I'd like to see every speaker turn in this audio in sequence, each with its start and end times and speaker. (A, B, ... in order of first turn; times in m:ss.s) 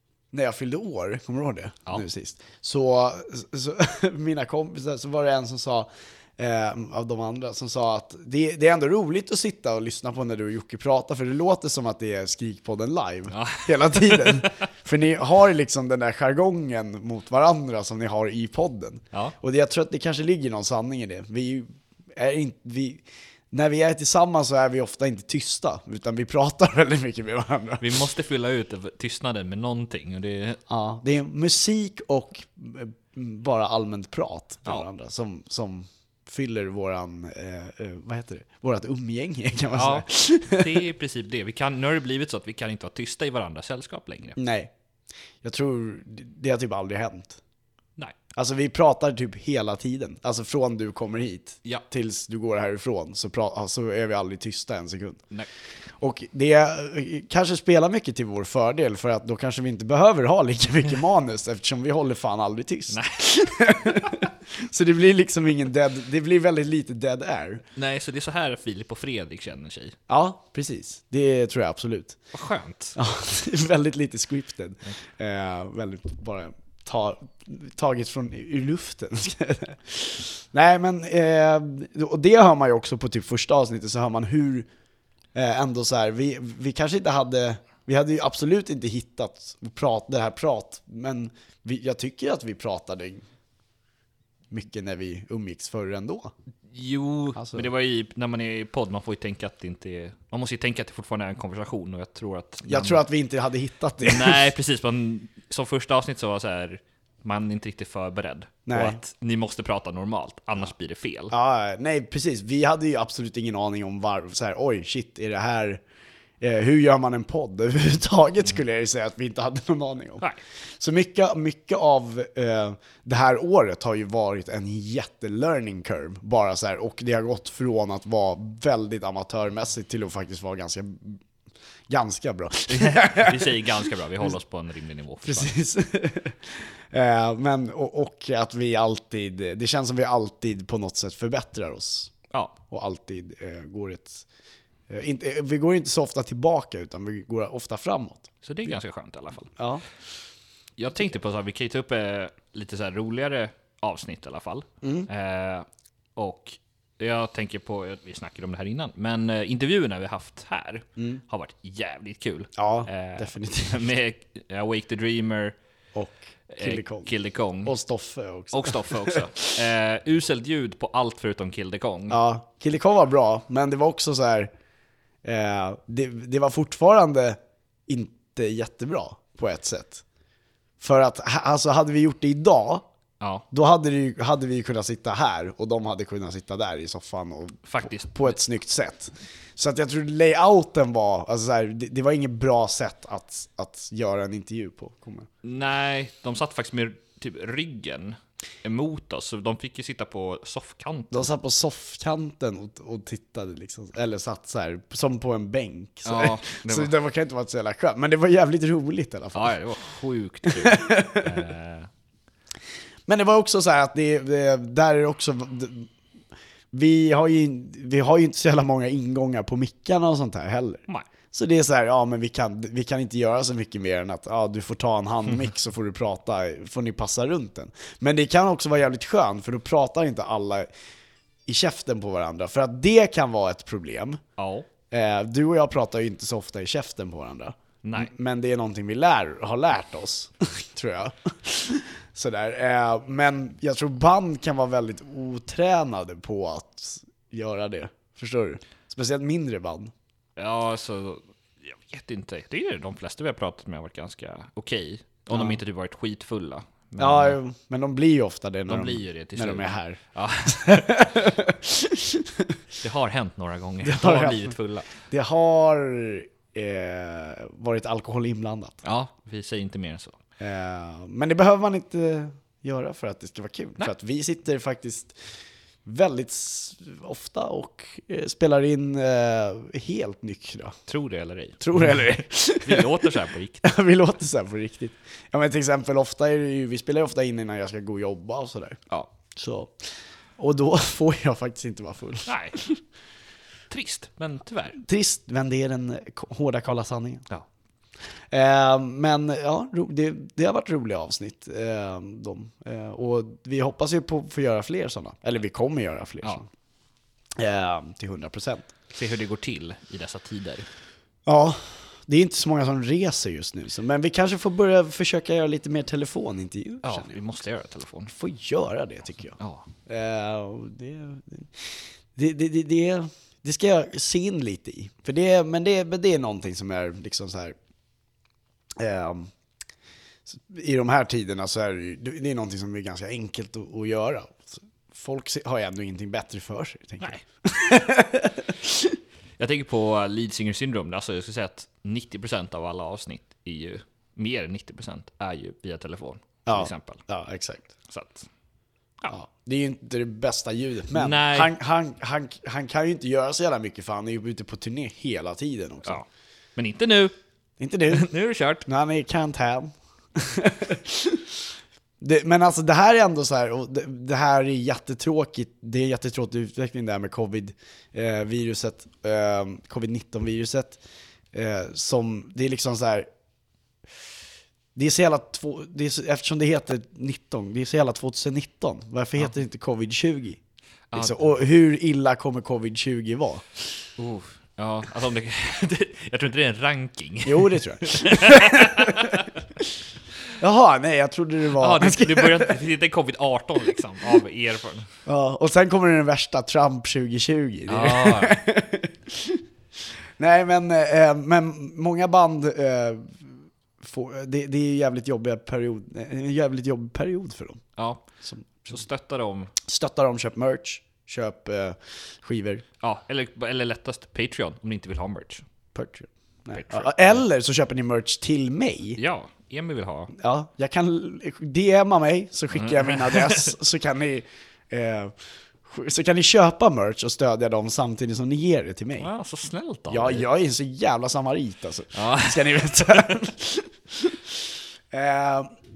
0:00.3-0:28.0 A
0:13.3-0:14.5 B
0:27.8-0:30.6 B
0:30.7-0:40.8 A
0:39.7-0:44.4 B
0:44.4-0:44.7 A
0:45.4-0:47.4 A
0:48.3-0:55.2 A
0:56.0-1:07.6 A
1:02.9-1:04.2 B
1:07.8-1:10.0 B
1:10.1-1:12.2 A
1:12.3-1:13.0 B
1:13.0-1:24.7 A
1:25.3-1:33.2 A
1:34.5-1:36.3 A
1:36.7-1:43.0 B
1:37.4-1:37.6 A
1:42.6-1:44.5 A
1:44.0-1:51.3 B
1:48.7-1:49.0 A
1:51.3-1:55.8 A
1:56.4-2:00.2 A
2:00.8-2:11.2 A
2:11.9-2:13.6 A
2:12.7-2:15.5 B
2:15.2-2:22.1 A
2:22.3-2:22.6 B
2:22.7-2:24.2 A
2:24.9-2:28.3 A
2:28.4-2:29.5 B
2:29.6-2:29.8 A
2:30.8-2:45.6 B
2:34.8-2:35.1 A
2:41.0-2:41.2 A
2:42.6-2:43.8 A
2:45.9-2:47.1 A
2:46.5-2:47.7 B
2:47.6-2:49.3 A
2:48.5-2:52.2 B
2:52.1-2:54.5 A
2:55.2-3:00.0 A
3:00.8-3:02.9 A
3:03.5-3:15.3 A
3:07.6-3:08.4 B
3:15.4-3:21.3 B
3:21.1-3:29.5 A
3:26.0-3:26.9 B
3:29.3-3:31.9 B
3:30.5-3:31.4 A
3:33.1-3:35.9 A
3:36.7-3:50.7 A
3:51.4-3:54.2 A
3:54.4-3:54.7 B
3:54.9-4:09.9 A
3:57.8-3:58.1 B
4:10.4-4:17.4 B
4:15.3-4:15.6 A
4:17.0-4:22.6 A
4:18.7-4:21.1 B
4:22.8-4:24.9 B
4:23.8-4:28.8 A
4:28.8-4:30.2 B
4:30.4-4:35.2 A
4:35.8-4:40.8 A
4:40.9-4:43.7 B
4:41.6-4:43.1 A
4:43.6-4:48.8 A
4:49.3-4:52.8 A
4:52.2-4:52.6 B
4:53.7-4:54.8 B
4:54.8-4:57.2 A
4:58.3-5:06.5 A
5:07.4-5:08.7 A
5:08.9-5:10.7 B
5:11.2-5:17.1 A
5:16.8-5:18.1 B
5:18.1-5:27.6 A
5:19.4-5:19.7 B
5:28.8-5:29.3 A
5:30.3-5:39.0 A
5:39.4-5:47.0 B
5:46.4-5:47.7 A
5:47.9-5:48.3 B
5:49.1-5:56.0 A
5:50.9-5:51.5 B
5:55.8-5:57.1 B
5:57.6-5:58.1 A
5:57.9-5:58.7 B
5:58.6-6:01.4 A
6:02.0-6:10.8 A
6:11.3-6:13.1 A
6:14.7-6:20.4 A
6:20.9-6:21.3 B
6:20.9-6:23.4 A
6:24.0-6:29.3 B
6:27.2-6:29.7 A
6:30.4-6:32.6 A
6:31.6-6:34.9 B
6:35.0-6:39.4 A
6:37.7-6:38.4 B
6:40.2-6:47.6 A
6:47.8-6:48.0 B
6:48.2-6:48.7 A
6:48.6-6:49.5 B
6:49.6-6:52.6 A
6:52.8-6:55.4 B
6:55.7-6:59.0 A
6:56.5-6:57.2 B
6:59.0-7:00.1 B
7:00.2-7:09.1 A
7:02.5-7:03.5 B
7:09.0-7:10.2 B
7:09.9-7:15.5 A
7:11.9-7:13.2 B